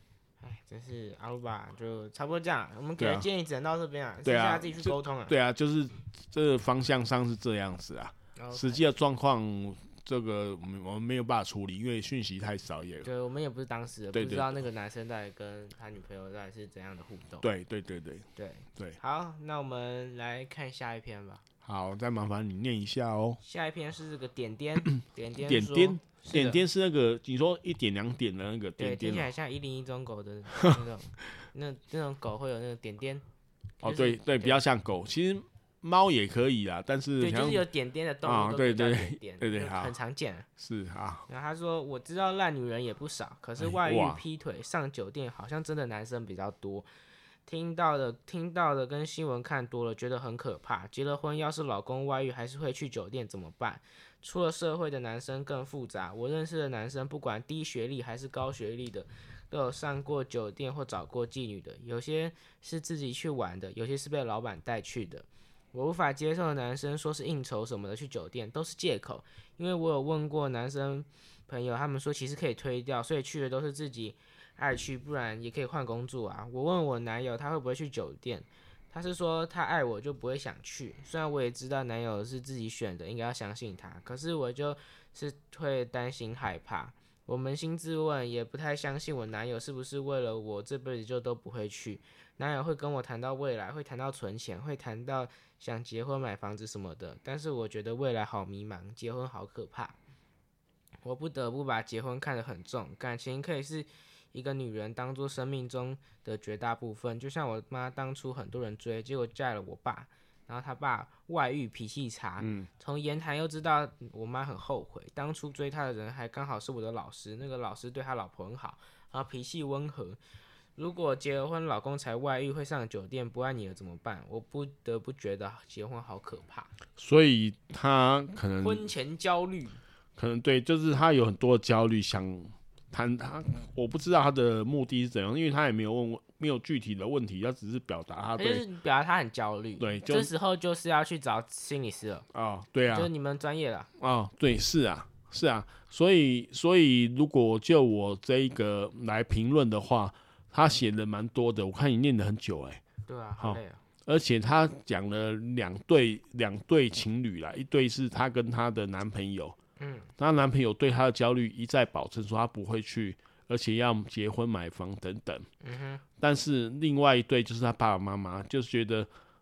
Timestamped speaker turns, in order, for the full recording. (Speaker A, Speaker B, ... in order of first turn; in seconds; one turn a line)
Speaker A: 0.4-5.3
Speaker B: 3.0-3.3
Speaker B: 4.2-13.1
Speaker A: 8.3-8.8
Speaker A: 13.0-17.5
Speaker B: 14.1-14.5
Speaker B: 17.4-19.0
Speaker A: 18.4-21.4
Speaker B: 21.6-23.4
Speaker A: 23.4-26.6
Speaker B: 24.9-29.3
Speaker A: 28.8-33.2
Speaker A: 33.8-34.6
Speaker B: 33.8-37.6
Speaker A: 37.2-40.5
Speaker B: 38.2-39.9
Speaker B: 40.6-41.2
Speaker A: 41.3-46.9
Speaker B: 43.6-44.2
Speaker A: 47.5-100.0
Speaker A: 101.0-120.2
Speaker B: 112.4-112.7
Speaker A: 120.8-126.7
Speaker B: 127.0-128.8
Speaker A: 128.6-129.8
Speaker B: 130.2-138.6
Speaker A: 138.4-142.2
Speaker B: 139.8-140.3
Speaker B: 142.3-143.1
Speaker A: 142.9-143.9
Speaker B: 144.0-152.8
Speaker A: 153.1-153.8
Speaker B: 153.4-159.6
Speaker A: 159.8-160.1
Speaker B: 160.2-165.5
Speaker A: 165.6-166.0
Speaker B: 166.2-169.1